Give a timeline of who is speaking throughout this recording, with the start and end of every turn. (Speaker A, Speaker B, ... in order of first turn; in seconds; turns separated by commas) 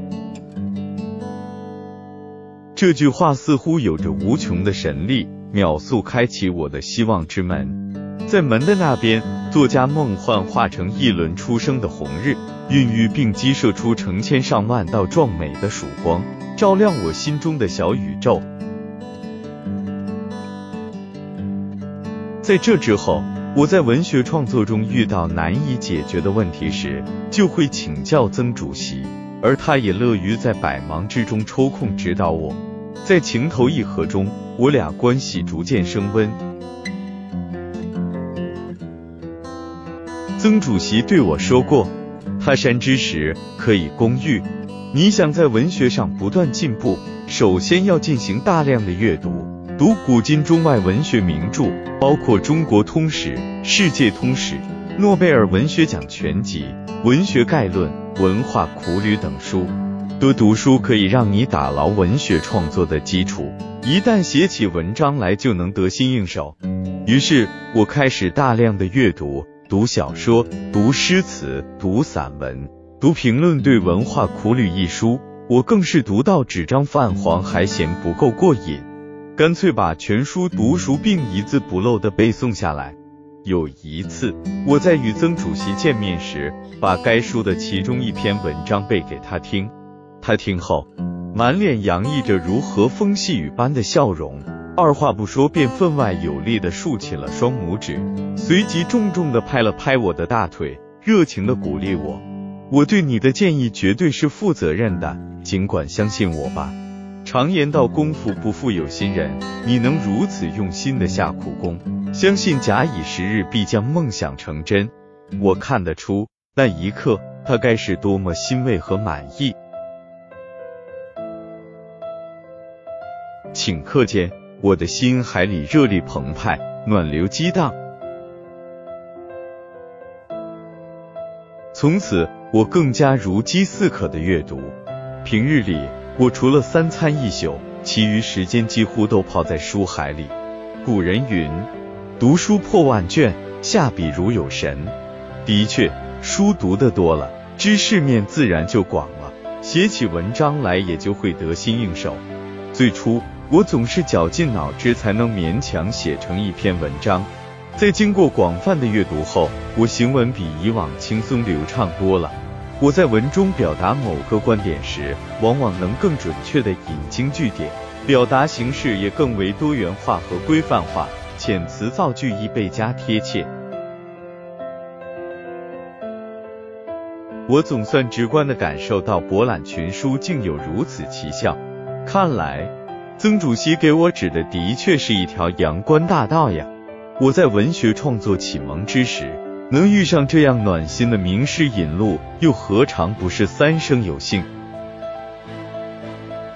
Speaker A: 2.7-18.4, Speaker A: 22.4-36.4, Speaker A: 40.4-119.6, Speaker A: 123.5-127.8, Speaker A: 131.7-173.5, Speaker A: 177.5-194.5